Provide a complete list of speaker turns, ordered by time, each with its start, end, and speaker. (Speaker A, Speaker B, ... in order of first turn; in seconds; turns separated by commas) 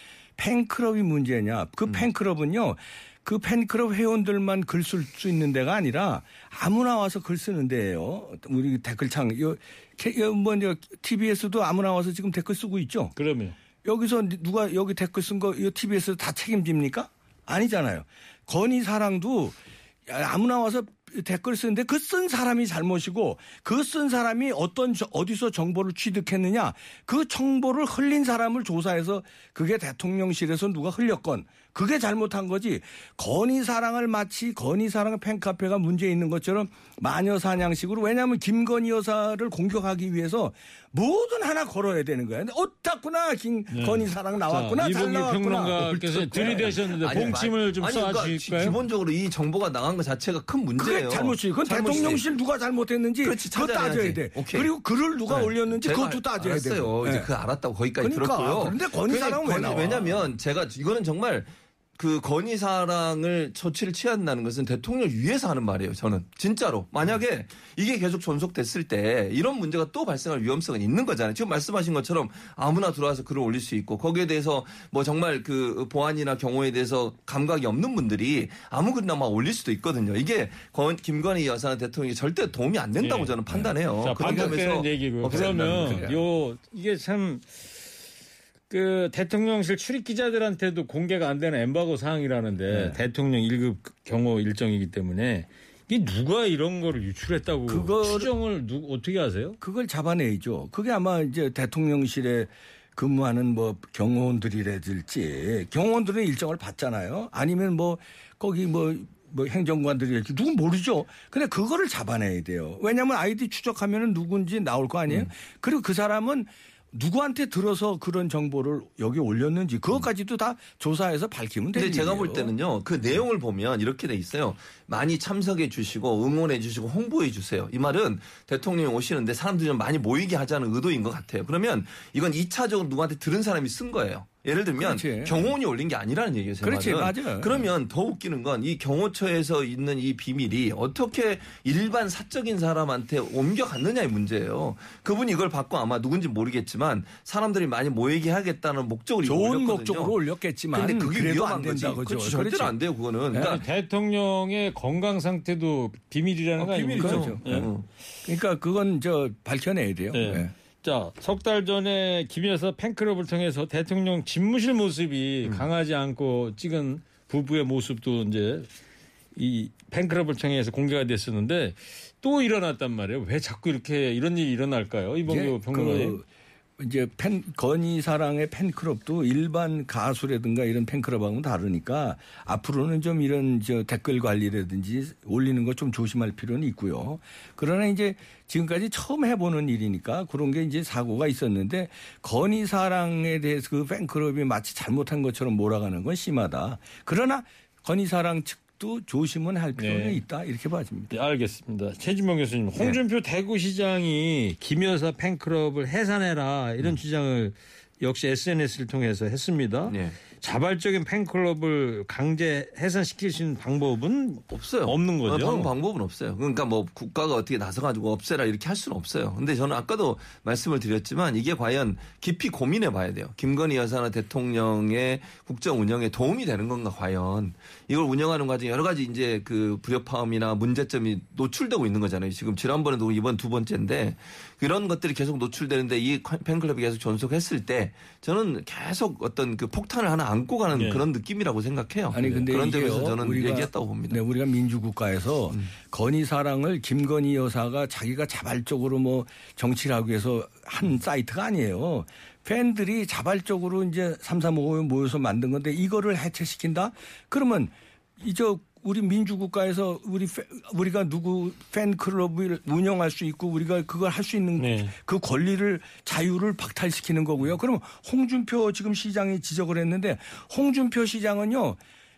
Speaker A: 0.4-13.1, Speaker B: 13.2-13.6, Speaker A: 13.8-47.4, Speaker B: 43.7-48.8, Speaker C: 46.4-52.3, Speaker A: 50.8-57.3, Speaker C: 53.2-54.7, Speaker C: 55.2-86.1, Speaker A: 58.0-60.3, Speaker B: 83.0-87.5, Speaker A: 83.5-84.7, Speaker A: 85.2-86.2, Speaker B: 88.7-99.6, Speaker A: 92.7-93.0, Speaker A: 97.7-98.3, Speaker A: 99.6-122.5, Speaker C: 121.7-150.2, Speaker A: 134.8-135.5, Speaker A: 136.6-137.7, Speaker A: 149.2-152.8, Speaker C: 150.7-153.6, Speaker A: 153.3-153.6, Speaker B: 153.4-157.7, Speaker C: 156.6-157.9, Speaker A: 156.8-157.7, Speaker A: 158.2-160.5, Speaker B: 160.1-168.7, Speaker B: 169.4-176.2, Speaker A: 175.3-176.3, Speaker A: 176.8-201.1, Speaker B: 199.8-200.2, Speaker B: 201.1-215.7, Speaker C: 209.9-210.2, Speaker C: 214.5-244.2, Speaker B: 240.7-241.1, Speaker A: 242.1-271.8, Speaker B: 264.6-264.9